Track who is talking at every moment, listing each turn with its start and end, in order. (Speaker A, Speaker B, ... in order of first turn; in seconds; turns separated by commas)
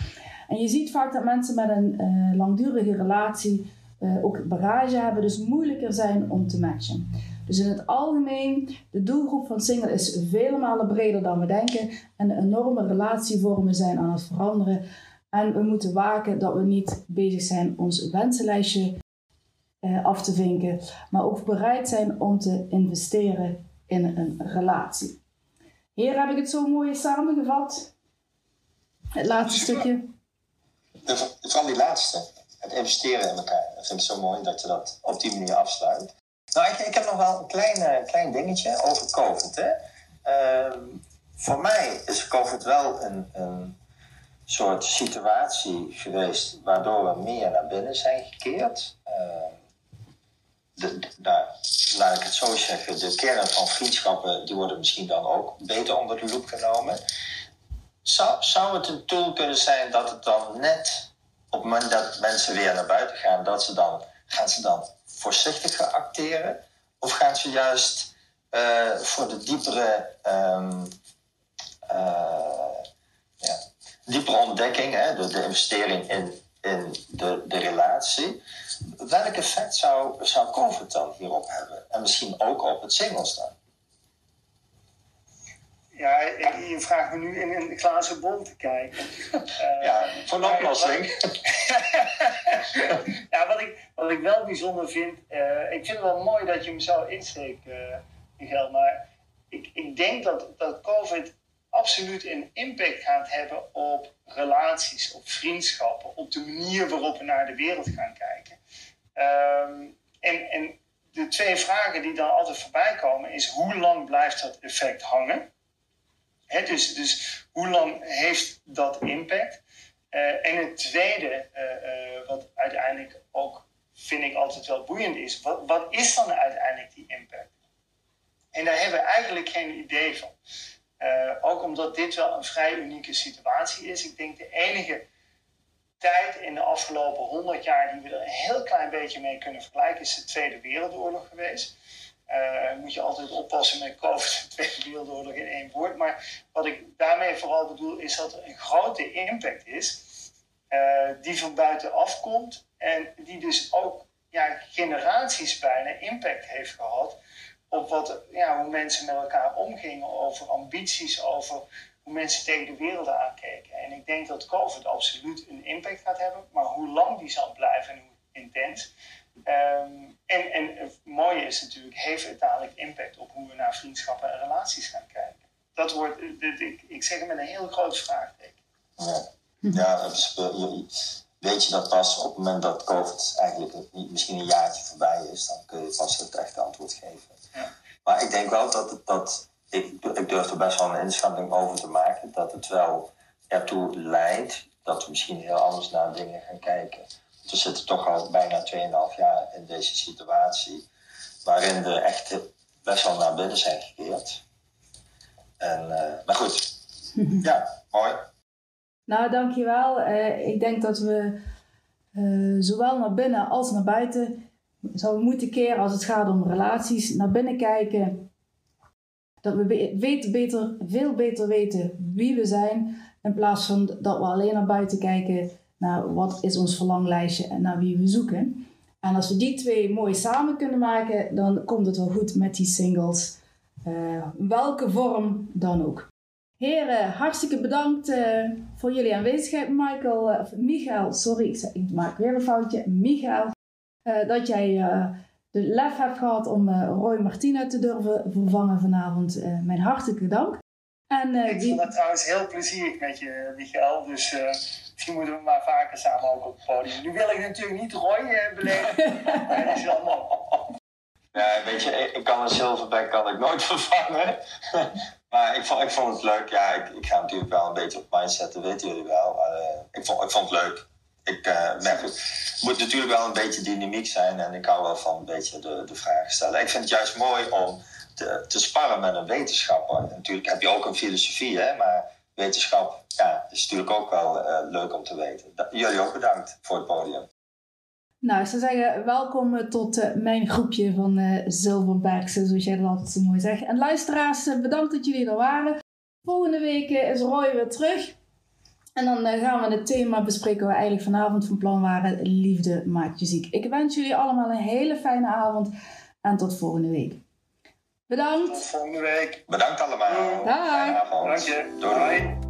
Speaker A: 0.5-19.0, Speaker A: 19.8-25.2, Speaker A: 25.9-27.9, Speaker A: 29.1-30.1, Speaker B: 31.0-43.8, Speaker B: 44.5-49.6, Speaker B: 50.8-57.0, Speaker B: 58.0-70.9, Speaker B: 71.9-72.8, Speaker B: 73.4-78.4, Speaker B: 79.0-83.5, Speaker C: 85.9-108.6, Speaker B: 89.8-91.3, Speaker C: 109.2-115.5, Speaker C: 116.5-119.6, Speaker C: 120.1-127.5, Speaker C: 128.5-130.3, Speaker C: 131.0-135.1, Speaker C: 136.0-141.7, Speaker C: 142.3-150.1, Speaker C: 150.7-157.2, Speaker C: 157.7-168.9, Speaker C: 169.4-178.6, Speaker B: 179.0-187.4, Speaker B: 188.0-200.8, Speaker B: 201.4-204.4, Speaker B: 205.6-206.8, Speaker B: 207.3-208.2, Speaker A: 209.1-211.4, Speaker A: 212.1-214.4, Speaker A: 214.9-218.3, Speaker A: 219.4-243.5, Speaker A: 244.1-251.9, Speaker C: 251.5-260.7, Speaker B: 261.3-287.3, Speaker A: 288.2-298.1, Speaker A: 298.9-305.7, Speaker A: 306.2-307.2, Speaker A: 308.1-308.6, Speaker C: 308.1-309.4, Speaker B: 309.5-312.3, Speaker C: 310.1-312.4, Speaker A: 310.4-311.0